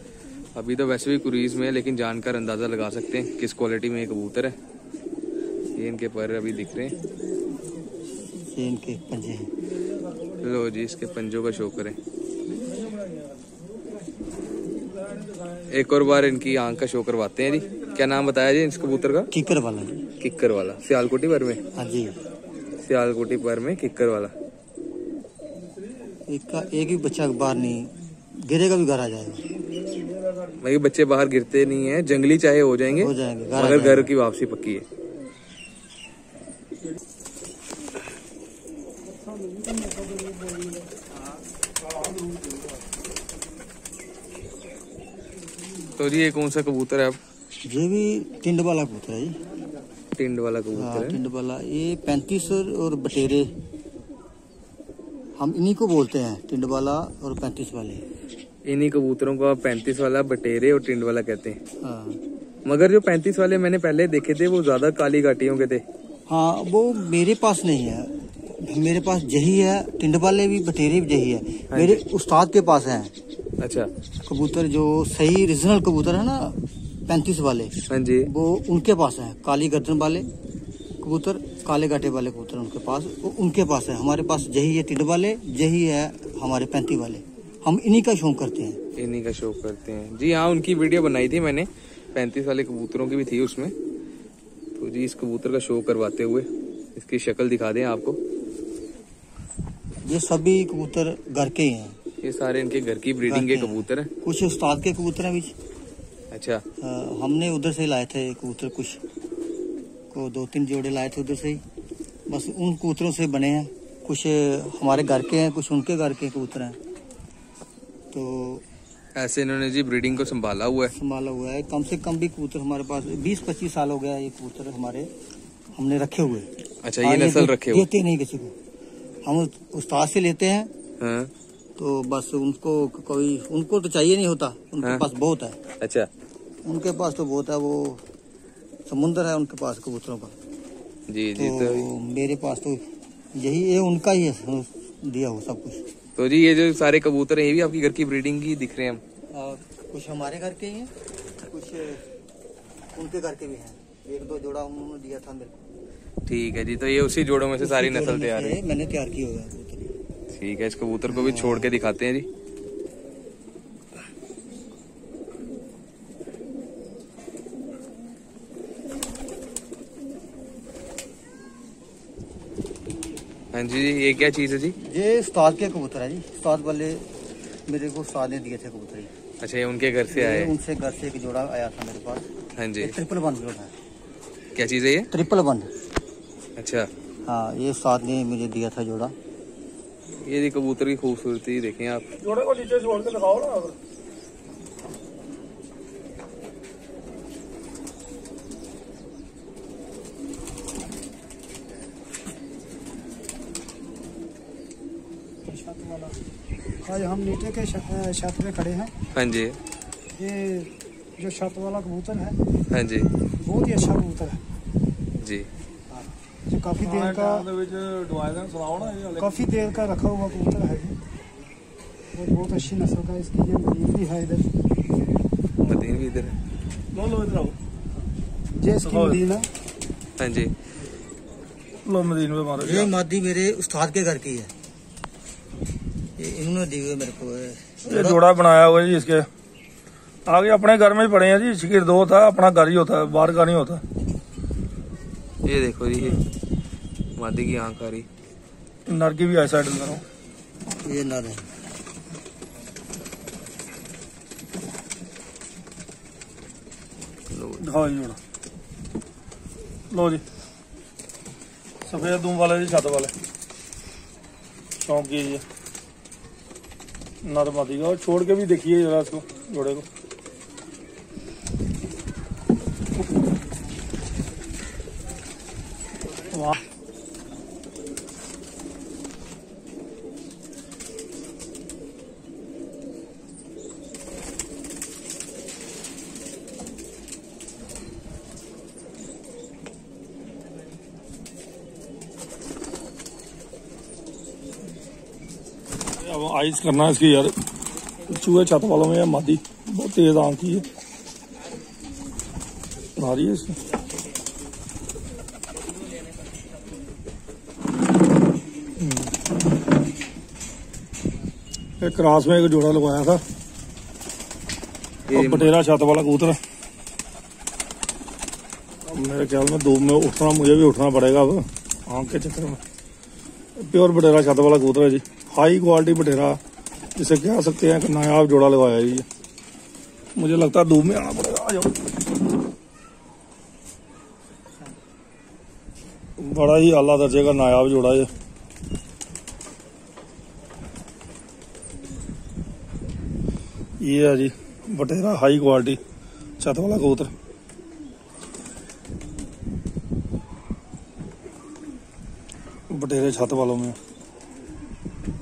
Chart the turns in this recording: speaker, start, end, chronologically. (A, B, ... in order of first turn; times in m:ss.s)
0:00.5-0:04.6 A
0:05.8-0:07.0 A
0:08.4-0:09.5 B
0:09.7-0:10.4 C
0:10.4-0:12.0 A
0:12.5-0:13.5 C
0:14.8-0:15.7 C
0:15.7-0:19.3 A
0:19.3-0:20.0 B
0:20.2-0:21.6 A
0:21.7-0:22.2 B
0:22.8-0:24.3 A
0:26.3-0:29.5 B
0:29.7-0:30.6 C
0:30.6-0:34.8 A
0:32.9-0:34.1 B
0:39.0-0:40.9 D
0:41.8-0:42.6 C
0:46.0-0:47.2 A
0:47.6-0:49.4 B
0:50.2-0:51.2 A
0:50.7-0:53.5 B
0:55.4-0:58.0 B
0:58.6-1:01.6 A
1:01.8-1:02.2 B
1:02.6-1:05.8 A
1:06.3-1:13.1 B
1:11.7-1:12.0 A
1:13.6-1:13.9 A
1:14.2-1:20.3 B
1:17.9-1:18.3 A
1:21.0-1:28.8 B
1:29.0-1:33.7 A
1:34.8-1:38.2 A
1:40.0-1:42.0 B
1:42.2-1:44.1 A
1:43.3-1:45.5 B
1:46.3-1:46.6 A
1:46.8-1:49.0 B
1:50.1-1:51.6 B
1:52.3-1:56.8 B
1:58.1-1:58.6 B
1:59.1-2:00.9 A
2:00.9-2:05.1 B
2:05.8-2:08.5 B
2:06.8-2:07.9 A
2:09.2-2:10.7 B
2:11.0-2:11.3 A
2:11.8-2:15.6 B
2:15.8-2:16.1 A
2:16.6-2:18.0 B
2:18.9-2:20.4 B
2:21.1-2:21.9 A
2:21.4-2:22.8 B
2:23.3-2:25.8 B
2:26.2-2:29.0 A
2:29.3-2:30.9 B
2:31.5-2:32.0 B
2:32.9-2:35.6 B
2:36.2-2:38.6 A
2:37.6-2:39.9 B
2:40.3-2:42.3 A
2:41.1-2:41.7 B
2:53.5-2:54.8 A
2:54.8-2:57.1 B
2:57.7-2:59.1 B
2:59.4-3:00.5 A
3:00.1-3:03.7 B
3:02.6-3:03.0 A
3:04.6-3:05.1 A
3:05.1-3:05.7 B
3:06.6-3:06.9 A
3:07.2-3:09.1 B
3:10.1-3:12.0 A
3:12.2-3:13.8 C
3:25.4-3:26.2 D
3:26.8-3:28.9 D
3:29.1-3:29.6 A
3:30.2-3:32.4 D
3:32.7-3:33.1 A
3:33.4-3:34.4 D
3:35.2-3:35.5 A
3:36.5-3:37.5 D
3:36.8-3:39.6 C
3:39.2-3:41.0 D
3:42.1-3:44.5 D
3:45.6-3:46.4 A
3:46.9-3:47.6 C
3:48.6-3:49.4 D
3:48.8-3:49.2 C
3:50.2-3:50.5 A
3:51.8-3:52.9 C
3:52.6-3:54.5 B
3:56.2-3:58.2 B
3:57.8-3:59.3 C
4:00.3-4:03.8 C
4:05.4-4:06.2 A
4:07.2-4:08.1 A
4:08.8-4:10.0 C
4:10.8-4:11.5 B
4:17.3-4:17.6 A
4:17.6-4:18.2 C
4:19.9-4:20.2 C
4:21.8-4:23.1 C
4:24.8-4:25.4 C
4:27.2-4:29.9 C
4:36.3-4:36.6 C
4:56.0-4:57.3 C
4:58.1-5:00.6 C
5:03.0-5:03.6 C
5:08.8-5:09.1 C
5:11.8-5:13.2 C
5:15.1-5:15.5 A
5:15.1-5:16.4 C
5:18.8-5:22.6 C
5:23.6-5:26.4 C
5:27.0-5:29.1 C
5:30.2-5:31.7 C
5:36.2-5:38.1 C
5:43.8-5:45.8 C
5:46.4-5:47.1 C
5:52.7-5:53.8 C